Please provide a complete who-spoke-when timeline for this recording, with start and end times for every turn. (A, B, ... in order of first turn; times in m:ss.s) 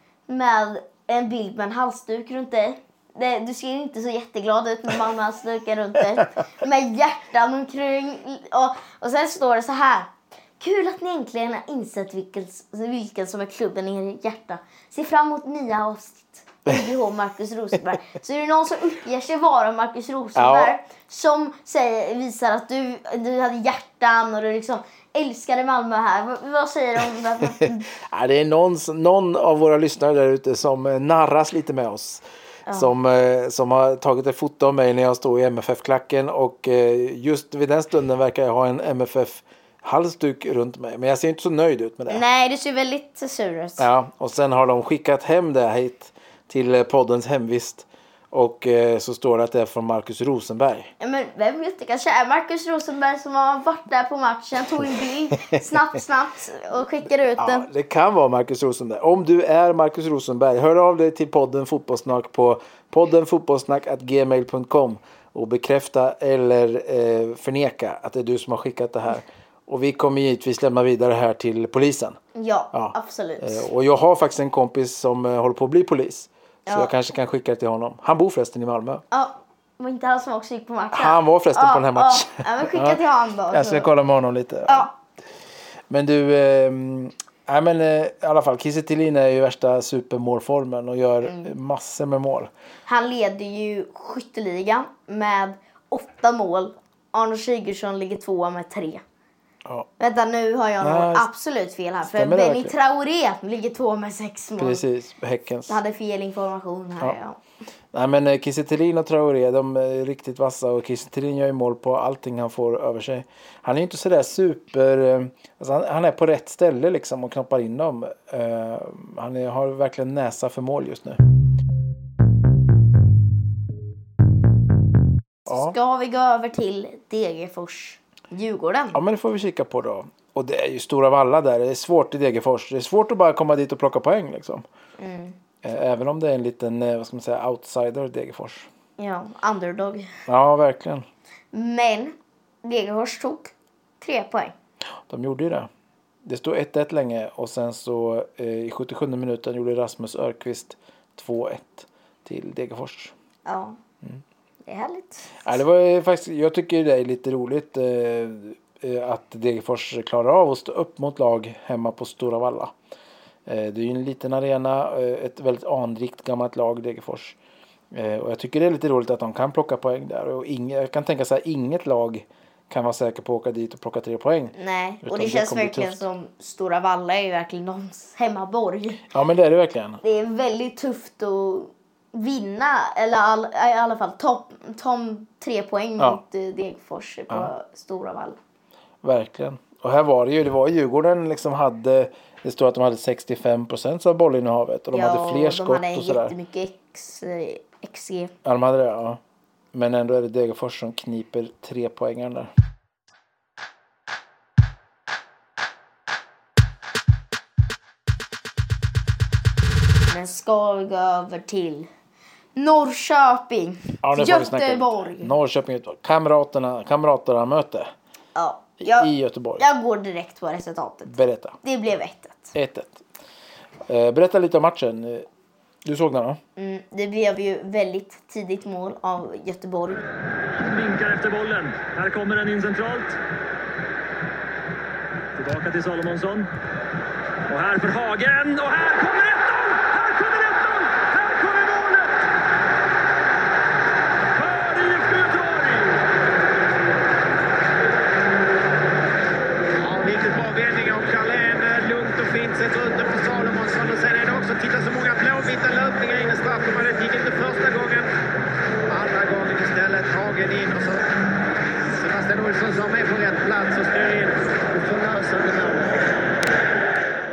0:00.3-0:27.9 A
0:20.4-0:20.8 B
0:27.6-0:42.2 B
0:32.7-0:32.9 A
0:42.1-0:43.9 A
0:43.8-0:50.9 B
0:51.0-0:57.7 A
0:57.4-1:12.2 B
1:12.3-1:13.6 A
1:12.7-1:19.0 B
1:16.7-1:16.9 A
1:19.1-1:23.9 A
1:20.9-1:24.9 B
1:24.7-1:24.9 A
1:25.9-1:32.5 B
1:31.2-1:31.5 A
1:32.8-1:39.0 A
1:40.0-1:44.8 A
1:40.8-1:41.3 B
1:42.0-1:42.7 B
1:44.6-1:45.8 B
1:45.7-1:47.4 A
1:47.9-2:01.2 B
2:05.5-2:05.7 B
2:05.5-2:09.0 A
2:08.9-2:14.6 B
2:15.0-2:15.4 A
2:15.6-2:18.7 B
2:19.0-2:20.1 A
2:20.3-2:21.0 B
2:21.5-2:24.5 A
2:25.1-2:25.7 B
2:26.2-2:33.1 B
2:33.4-2:33.8 A
2:34.6-2:35.5 A
2:35.4-2:42.7 B
2:43.4-2:47.4 B
2:47.9-2:56.0 B
2:54.5-2:59.0 A
2:59.1-3:00.0 B
3:00.0-3:08.4 A
3:09.0-3:16.3 B
3:14.9-3:18.3 A
3:18.4-3:19.2 B
3:19.7-3:22.5 B
3:30.1-3:31.9 A
3:32.6-3:35.3 A
3:34.0-3:37.9 B
3:38.3-3:42.5 A
3:38.8-3:39.6 B
3:41.1-3:41.6 B
3:42.5-3:43.0 B
3:43.9-3:45.3 B
3:45.8-3:46.4 B
3:46.6-3:50.0 A
3:50.5-3:53.2 C
3:55.3-3:56.5 C
3:57.5-4:02.2 C
4:04.3-4:06.0 C
4:09.8-4:18.1 D
4:18.9-4:21.1 D
4:21.8-4:26.0 D